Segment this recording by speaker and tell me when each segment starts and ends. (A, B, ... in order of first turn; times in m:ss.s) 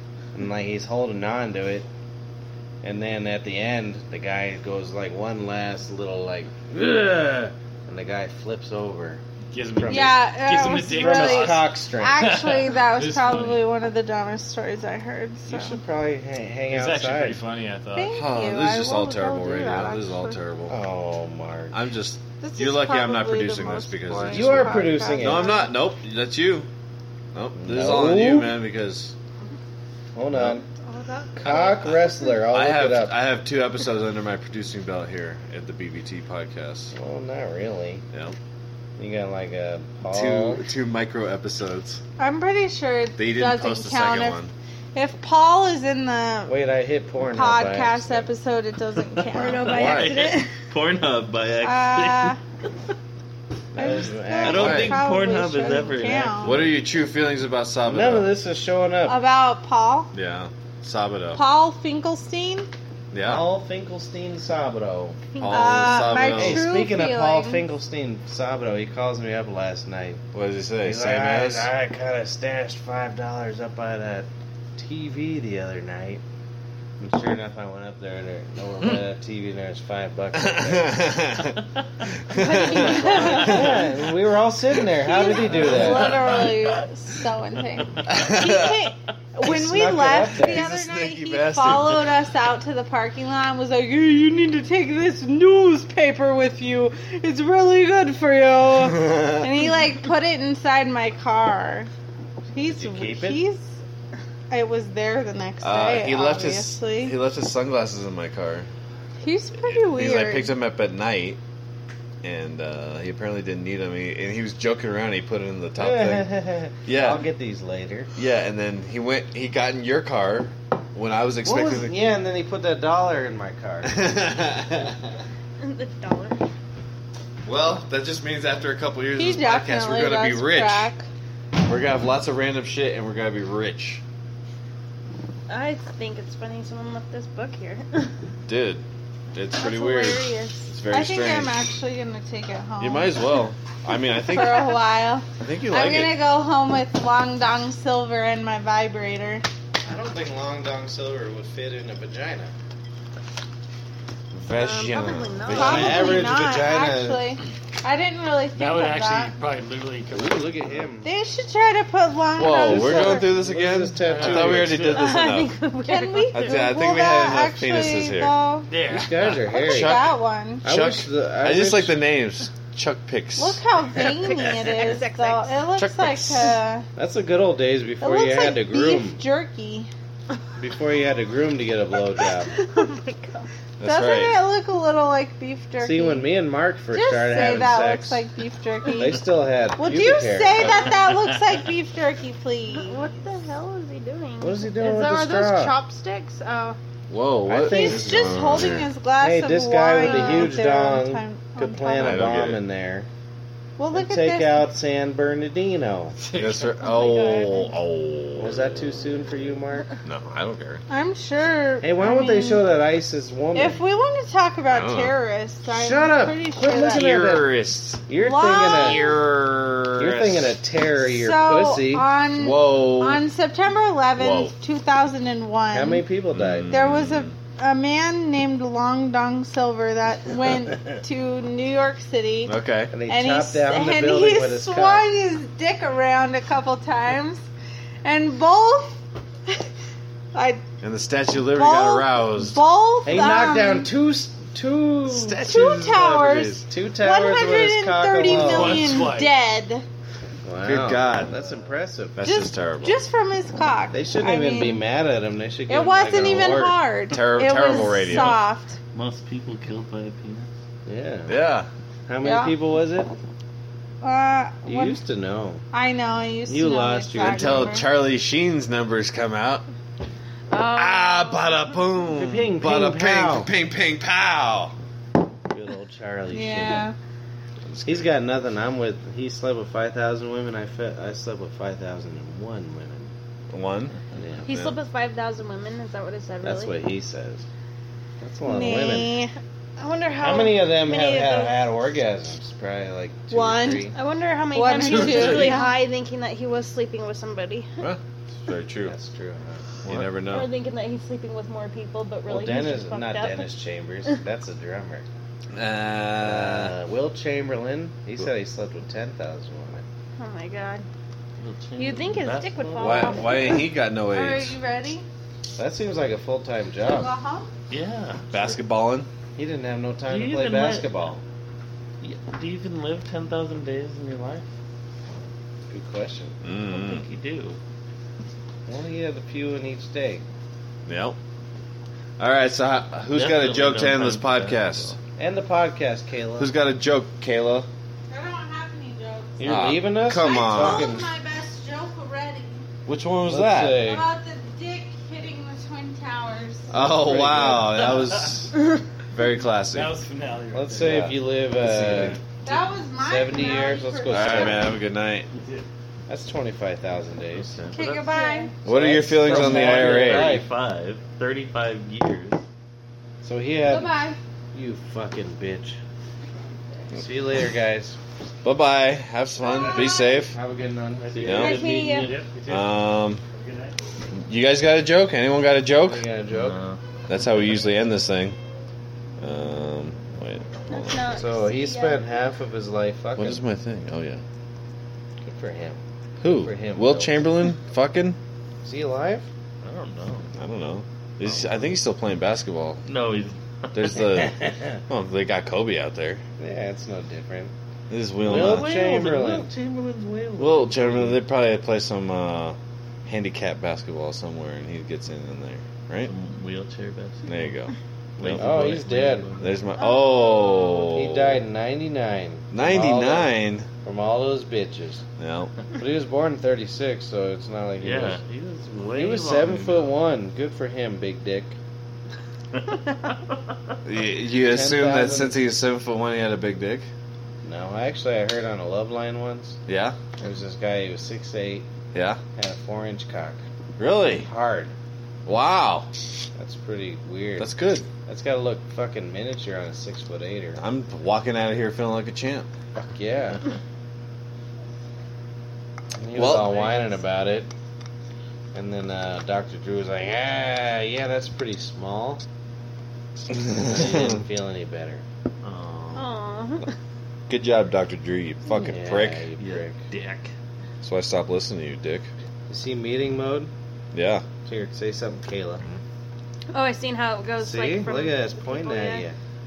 0:00.3-0:01.9 A
0:02.8-0:09.2 A
0:09.5-0:13.6 B
0:09.8-0:12.2 A
0:09.9-0:15.8 C
0:15.5-0:17.4 A
0:16.7-0:18.1 B
0:18.0-0:20.4 C
0:18.1-0:20.8 D
0:20.7-0:21.8 A
0:21.7-0:26.7 D
0:22.4-0:25.7 C
0:24.3-0:25.6 A
0:27.3-0:29.2 D
0:27.6-0:28.6 A
0:30.2-0:30.7 A
0:30.3-0:30.6 D
0:30.8-0:32.3 E
0:31.4-0:33.1 A
0:32.5-0:36.9 D
0:36.9-0:38.0 A
0:39.0-0:40.7 A
0:40.1-0:42.0 D
0:42.2-0:44.4 C
0:43.2-0:44.5 D
0:44.9-0:46.6 C
0:46.5-0:48.3 A
0:47.3-0:49.8 C
0:49.3-0:50.5 E
0:49.6-0:52.4 F
0:49.7-0:50.1 D
0:51.6-0:52.4 C
0:53.7-0:55.0 A
0:53.8-0:56.6 C
0:54.4-0:56.6 F
0:54.5-0:55.0 D
0:56.4-0:58.3 D
0:57.9-0:59.2 A
0:59.1-1:00.1 C
1:00.1-1:01.4 D
1:01.3-1:02.7 C
1:03.1-1:03.4 D
1:03.2-1:05.2 A
1:05.4-1:06.7 D
1:05.5-1:07.6 C
1:05.8-1:10.2 A
1:10.3-1:11.7 D
1:10.8-1:16.2 A
1:17.0-1:21.2 A
1:20.3-1:23.8 D
1:22.4-1:23.7 E
1:22.4-1:23.7 C
1:23.0-1:26.4 A
1:25.0-1:41.9 C
1:25.3-1:26.6 B
1:28.1-1:28.9 D
1:29.4-1:30.6 A
1:30.4-1:32.1 D
1:39.0-1:39.3 D
1:42.5-1:43.8 C
1:42.7-1:43.4 A
1:44.5-1:47.2 C
1:45.6-1:48.7 D
1:49.2-1:50.5 C
1:49.6-1:51.4 D
1:52.2-1:56.3 D
1:55.8-1:58.1 A
1:56.8-1:57.2 D
1:58.2-2:02.0 D
2:01.4-2:04.0 A
2:03.8-2:05.2 D
2:05.6-2:06.4 E
2:07.4-2:10.9 D
2:09.2-2:11.1 C
2:11.6-2:14.0 D
2:15.5-2:18.1 E
2:18.5-2:21.6 D
2:19.6-2:20.6 E
2:20.9-2:23.2 C
2:22.8-2:24.8 D
2:24.2-2:29.4 C
2:25.4-2:26.2 D
2:29.8-2:32.5 A
2:34.3-2:36.2 D
2:34.5-2:36.6 E
2:35.5-2:37.2 A
2:35.5-2:39.4 C
2:38.6-2:40.8 B
2:40.1-2:41.1 A
2:41.0-2:43.3 C
2:42.4-2:45.5 D
2:42.5-2:45.0 A
2:43.9-2:45.1 B
2:44.9-2:46.7 E
2:45.8-2:48.7 C
2:46.3-2:48.4 D
2:48.7-2:49.4 B
2:48.9-2:50.1 A
2:49.5-2:50.7 C
2:49.5-2:53.6 D
2:50.6-2:52.0 A
2:53.4-2:56.9 C
2:54.0-2:55.6 E
2:55.8-2:56.6 D
2:57.0-2:59.2 A
2:58.0-2:59.9 C
3:00.6-3:02.6 A
3:02.2-3:03.5 E
3:03.8-3:04.4 D
3:03.8-3:06.3 C
3:05.8-3:08.2 A
3:06.9-3:09.2 C
3:09.0-3:10.9 A
3:09.8-3:13.2 C
3:12.7-3:16.8 E
3:14.4-3:15.8 A
3:17.1-3:18.9 D
3:17.5-3:18.5 A
3:17.6-3:22.3 C
3:19.2-3:23.1 A
3:20.0-3:20.5 E
3:22.0-3:22.6 D
3:23.8-3:24.7 C
3:23.9-3:26.2 A
3:26.2-3:27.1 B
3:26.3-3:28.8 D
3:26.8-3:27.7 E
3:28.4-3:29.9 A
3:30.0-3:30.8 D
3:30.9-3:32.6 C
3:31.8-3:33.8 A
3:33.6-3:37.2 C
3:34.7-3:35.1 D
3:35.7-3:37.5 A
3:36.6-3:40.6 D
3:38.1-3:39.2 A
3:38.2-3:39.2 C
3:40.0-3:42.1 A
3:41.0-3:46.0 C
3:42.3-3:43.2 D
3:44.2-3:44.6 D
3:45.7-3:46.7 A
3:46.3-3:47.4 D
3:46.7-3:52.6 C
3:52.5-3:52.9 D
3:52.9-3:55.1 A
3:53.1-3:57.4 C
3:58.0-3:59.6 C
4:00.3-4:00.6 C
4:00.8-4:02.6 D
4:01.5-4:03.9 C
4:03.0-4:05.5 A
4:05.1-4:06.6 D
4:05.4-4:09.8 C
4:06.5-4:09.1 A
4:08.3-4:09.3 B
4:10.4-4:12.3 A
4:10.6-4:11.4 D
4:12.2-4:13.0 D
4:12.2-4:14.8 C
4:13.9-4:16.8 A
4:15.7-4:18.8 C
4:17.1-4:18.4 D
4:18.9-4:20.5 F
4:20.9-4:21.4 A
4:21.3-4:21.7 D
4:22.1-4:23.1 A
4:22.2-4:22.6 C
4:24.0-4:25.0 C
4:24.6-4:25.6 A
4:25.7-4:27.9 C
4:26.5-4:27.8 A
4:27.2-4:29.6 D
4:30.6-4:31.0 E
4:30.7-4:34.8 D
4:32.1-4:33.5 A
4:35.5-4:36.9 A
4:36.3-4:37.0 C
4:37.7-4:38.1 D
4:37.8-4:43.1 A
4:43.5-4:44.8 D
4:44.1-4:44.6 A
4:44.5-4:46.8 E
4:46.4-4:47.4 A
4:48.2-4:49.1 A
4:48.5-4:49.3 C
4:49.8-4:51.7 E
4:50.2-4:54.0 A
4:53.3-4:53.9 C
4:53.9-4:57.7 E
4:54.5-4:55.8 C
4:54.8-4:55.6 B
4:57.8-4:59.0 D
4:58.8-4:59.7 A
4:59.8-5:00.5 D
5:00.2-5:03.5 E
5:02.3-5:05.0 A
5:05.5-5:06.8 D
5:06.2-5:09.8 A
5:10.2-5:10.9 E
5:11.4-5:13.3 F
5:11.8-5:13.7 E
5:12.8-5:14.6 D
5:14.1-5:15.0 C
5:15.6-5:17.1 A
5:16.8-5:17.5 C
5:17.7-5:18.6 F
5:18.3-5:19.1 D
5:19.4-5:21.2 A
5:20.0-5:20.9 F
5:22.0-5:24.5 F
5:25.7-5:26.4 A
5:26.4-5:27.0 D
5:26.6-5:27.6 F
5:28.7-5:30.2 A
5:30.9-5:31.2 D
5:32.2-5:35.0 D
5:33.1-5:35.0 F
5:35.2-5:36.6 A
5:36.4-5:37.7 D
5:38.1-5:42.7 C
5:39.4-5:41.1 A
5:39.4-5:40.9 D
5:42.9-5:43.9 D
5:43.2-5:44.0 A
5:43.8-5:46.7 C
5:46.7-5:47.9 A
5:46.7-5:48.5 D
5:48.0-5:48.4 B
5:49.1-5:49.9 D
5:49.7-5:52.6 B
5:50.5-5:52.2 A
5:50.8-5:52.2 D
5:52.4-5:54.8 C
5:53.0-5:54.8 A
5:54.1-5:55.3 D
5:55.3-5:55.6 B
5:56.1-5:57.6 A
5:57.3-5:58.1 F
5:57.7-5:58.5 C
5:58.1-5:58.5 E
5:58.6-6:00.4 D
5:58.6-6:00.5 A
5:59.1-6:02.4 F
6:03.2-6:04.0 A
6:03.6-6:04.2 C
6:04.5-6:05.8 A
6:06.9-6:08.0 A
6:08.4-6:10.4 D
6:09.4-6:11.5 A
6:11.0-6:13.8 B
6:11.1-6:12.3 F
6:11.2-6:11.6 D
6:11.4-6:12.1 E
6:12.5-6:13.2 D
6:14.2-6:16.1 D
6:15.8-6:16.6 A
6:16.3-6:16.8 F
6:17.1-6:18.4 D
6:19.2-6:21.0 D
6:20.7-6:22.2 E
6:21.1-6:23.4 A
6:23.2-6:24.2 D
6:25.2-6:27.2 A
6:26.2-6:28.2 D
6:28.6-6:29.3 A
6:29.6-6:30.4 F
6:30.4-6:32.8 D
6:31.2-6:31.8 F
6:32.8-6:34.1 F
6:33.7-6:34.3 D
6:34.2-6:34.8 A
6:34.9-6:36.2 D
6:36.4-6:37.5 A
6:37.9-6:38.7 D
6:38.2-6:39.5 A
6:38.2-6:41.2 F
6:40.4-6:46.1 D
6:46.0-6:47.6 F
6:47.3-6:48.5 D
6:48.2-6:49.6 F
6:48.4-6:49.3 A
6:49.4-6:51.4 D
6:49.8-6:50.9 E
6:50.9-6:55.0 A
6:52.5-6:53.7 D
6:55.2-6:55.5 D
6:55.8-6:58.2 A
6:57.8-7:00.0 F
6:58.9-7:01.6 A
7:02.5-7:03.1 F
7:03.8-7:06.9 D
7:04.4-7:05.4 A
7:07.4-7:09.6 A
7:09.7-7:10.0 D
7:10.2-7:11.7 A
7:11.9-7:12.2 D
7:12.4-7:13.4 A
7:13.8-7:14.3 D
7:14.1-7:14.7 A
7:15.3-7:15.9 D
7:16.4-7:17.5 A
7:17.4-7:17.9 D
7:18.0-7:20.6 A
7:20.6-7:22.5 D
7:22.8-7:23.4 A
7:26.0-7:27.5 A
7:26.2-7:26.7 D
7:28.5-7:32.2 A
7:33.3-7:34.2 D
7:33.5-7:35.0 A
7:35.4-7:36.1 F
7:36.0-7:36.7 E
7:37.3-7:39.3 D
7:38.5-7:39.8 A
7:39.4-7:40.3 F
7:40.8-7:42.1 D
7:42.5-7:43.5 A
7:43.9-7:44.3 D
7:44.4-7:45.6 A
7:46.5-7:49.0 E
7:47.4-7:49.2 A